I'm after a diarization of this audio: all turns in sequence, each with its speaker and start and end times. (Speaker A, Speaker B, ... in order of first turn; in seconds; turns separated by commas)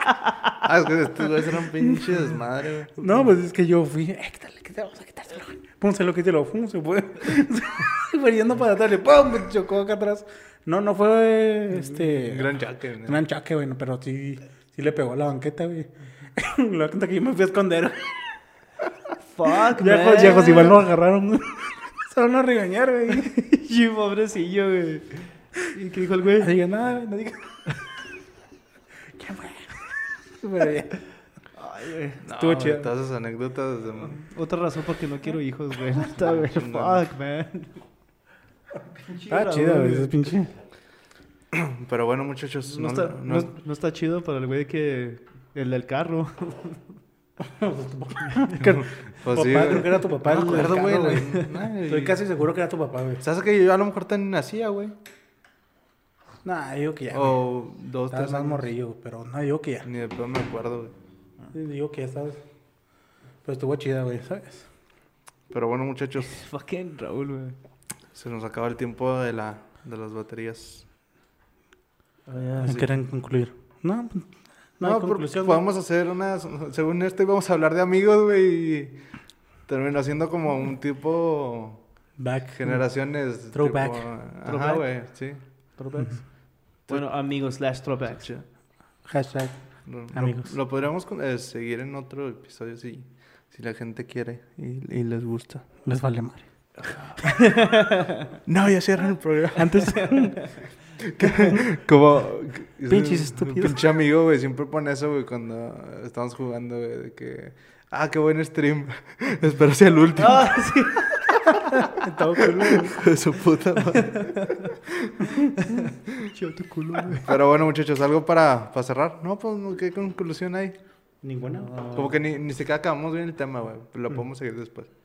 Speaker A: 0.6-3.1, Speaker B: 1.8-2.1, Speaker B: 3.0-18.4, Speaker A: 12.0-13.2, Speaker C: 19.3-20.8, Speaker B: 19.8-23.4, Speaker C: 23.3-26.5, Speaker B: 26.4-27.7, Speaker B: 29.1-31.0, Speaker C: 31.6-32.2, Speaker A: 32.2-34.2, Speaker B: 32.3-32.9, Speaker C: 34.0-37.9, Speaker A: 36.1-37.0, Speaker C: 39.1-40.3, Speaker B: 39.3-40.5, Speaker A: 41.5-43.5, Speaker C: 42.7-46.9, Speaker B: 47.4-53.2, Speaker C: 48.3-48.5, Speaker A: 48.6-52.2, Speaker A: 53.2-55.0, Speaker B: 56.4-57.4, Speaker A: 57.1-58.6, Speaker B: 58.1-59.9, Speaker A: 59.9-60.9, Speaker B: 61.5-62.4, Speaker B: 63.4-64.7, Speaker A: 65.5-66.4, Speaker C: 66.2-67.6, Speaker A: 68.1-70.9, Speaker C: 72.3-72.8, Speaker A: 72.6-72.9, Speaker B: 72.6-75.6, Speaker A: 74.8-79.1, Speaker A: 79.7-81.8, Speaker B: 82.2-82.8, Speaker A: 82.5-85.7, Speaker B: 83.5-84.1, Speaker C: 84.5-85.0, Speaker C: 85.5-88.3, Speaker A: 86.9-87.1, Speaker A: 88.1-88.5, Speaker B: 89.0-90.5, Speaker A: 89.8-95.8, Speaker B: 95.8-96.8, Speaker C: 96.8-98.2, Speaker A: 98.5-100.3, Speaker B: 99.6-100.5, Speaker C: 100.0-100.6, Speaker A: 101.0-111.6, Speaker B: 102.9-103.8, Speaker C: 110.2-111.1, Speaker B: 111.9-113.0, Speaker A: 112.4-115.2, Speaker C: 114.1-114.6, Speaker C: 115.6-117.3, Speaker A: 117.3-120.8, Speaker B: 121.2-121.8, Speaker C: 121.5-122.1, Speaker A: 121.9-124.9